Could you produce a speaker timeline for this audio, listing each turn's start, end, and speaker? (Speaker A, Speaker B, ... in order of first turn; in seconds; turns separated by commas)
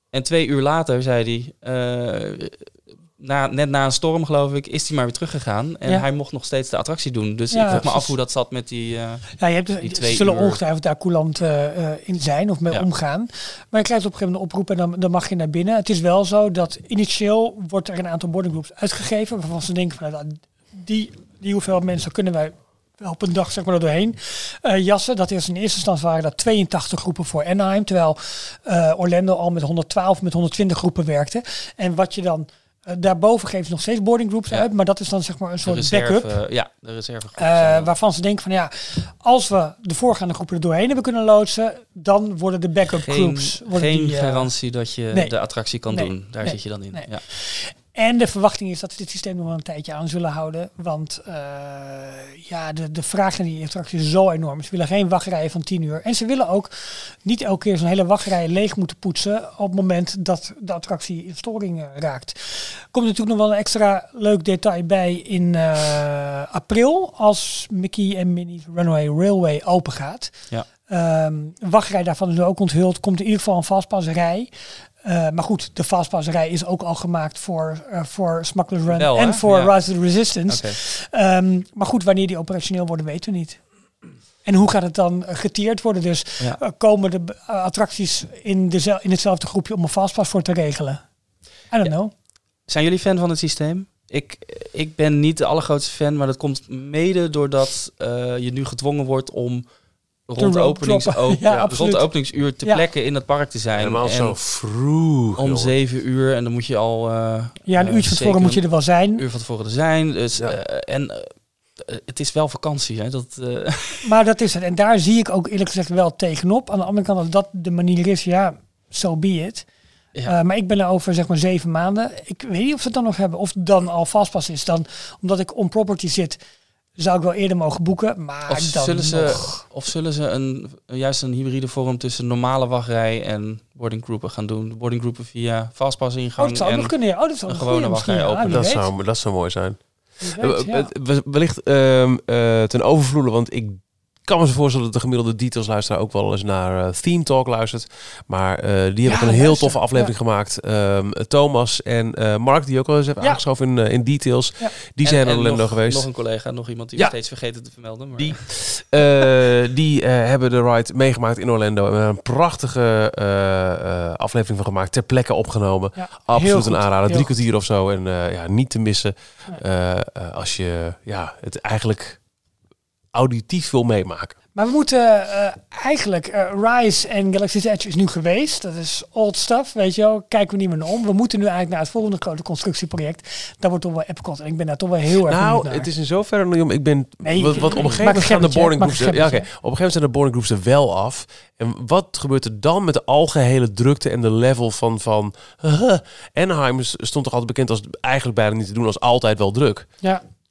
Speaker A: 0.1-10.6, Speaker B: 7.5-8.1, Speaker B: 9.4-36.3, Speaker A: 35.6-37.9, Speaker B: 37.4-44.5, Speaker A: 42.9-47.2, Speaker B: 45.9-70.3, Speaker B: 70.9-74.5, Speaker B: 75.0-83.6, Speaker A: 78.9-79.7, Speaker A: 80.5-80.8, Speaker B: 84.4-91.0, Speaker B: 91.7-92.1, Speaker A: 92.7-99.6, Speaker A: 100.3-104.4, Speaker B: 100.4-102.8, Speaker C: 101.5-101.8, Speaker C: 103.7-105.7, Speaker A: 105.4-114.1, Speaker B: 107.7-109.2, Speaker B: 114.0-119.7, Speaker B: 120.2-126.4, Speaker B: 127.0-129.6, Speaker A: 128.5-136.9, Speaker B: 136.4-138.9, Speaker A: 137.4-138.6, Speaker C: 138.4-156.0, Speaker B: 140.2-140.9, Speaker B: 149.0-150.1, Speaker A: 155.0-158.4, Speaker C: 158.2-172.2, Speaker B: 165.9-167.3, Speaker C: 173.1-174.3, Speaker B: 174.5-185.9, Speaker C: 185.2-199.9, Speaker B: 187.2-189.4